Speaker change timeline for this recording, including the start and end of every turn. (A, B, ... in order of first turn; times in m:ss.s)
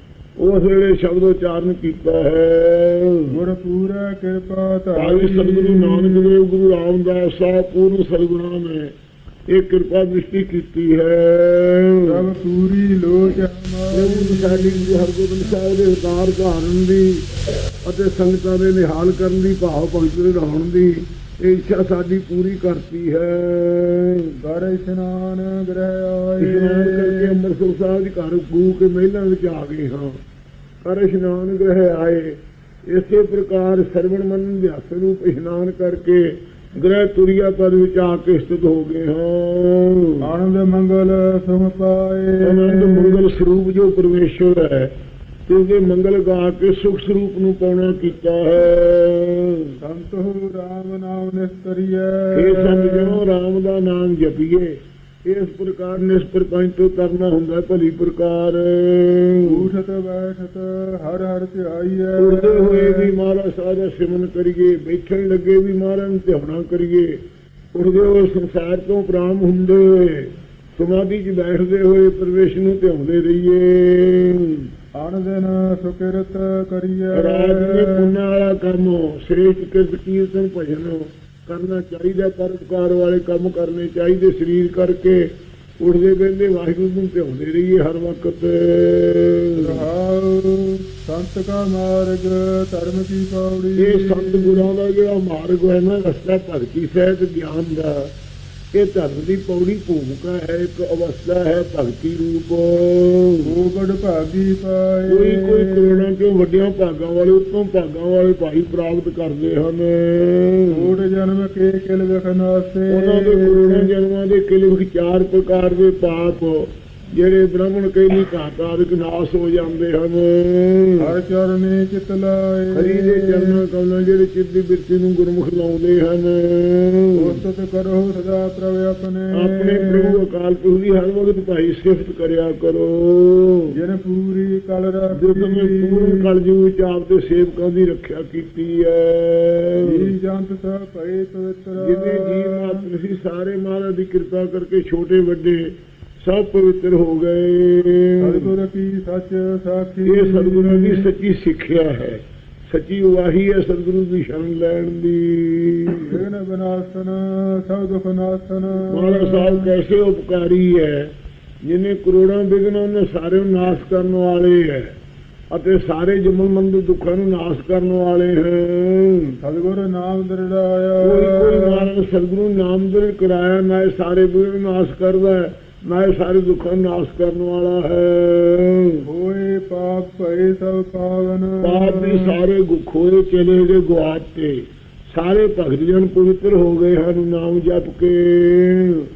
0:00.4-0:03.4 A
0:03.3-0:06.3 B
0:05.0-0:08.9 A
0:09.5-0:12.2 A
0:12.0-0:15.1 B
0:13.9-0:17.2 A
0:17.8-0:24.3 A
0:24.4-0:27.4 B
0:26.4-0:30.2 A
0:30.8-0:40.2 A
0:40.2-0:43.3 B
0:42.4-0:44.9 A
0:45.5-0:49.6 A
0:49.8-0:53.2 B
0:52.3-0:59.6 A
0:59.4-1:03.1 B
1:02.2-1:07.2 A
1:07.7-1:14.6 A
1:15.0-1:18.2 B
1:17.1-1:25.3 A
1:25.8-1:29.8 A
1:29.6-1:34.7 B
1:33.8-1:38.1 A
1:38.7-1:43.4 A
1:43.4-1:46.1 B
1:45.1-1:50.9 A
1:50.7-1:53.9 B
1:52.9-2:01.1 A
2:01.0-2:03.6 B
2:02.7-2:07.4 A
2:07.1-2:10.2 B
2:09.3-2:13.7 A
2:13.7-2:16.3 B
2:15.2-2:20.1 A
2:19.8-2:22.9 B
2:21.8-2:28.5 A
2:28.2-2:31.1 B
2:30.0-2:36.2 A
2:36.1-2:39.7 B
2:38.9-2:45.0 A
2:45.5-2:49.4 A
2:49.4-2:51.9 B
2:51.0-2:59.0 A
2:59.0-3:02.4 B
3:01.6-3:09.1 A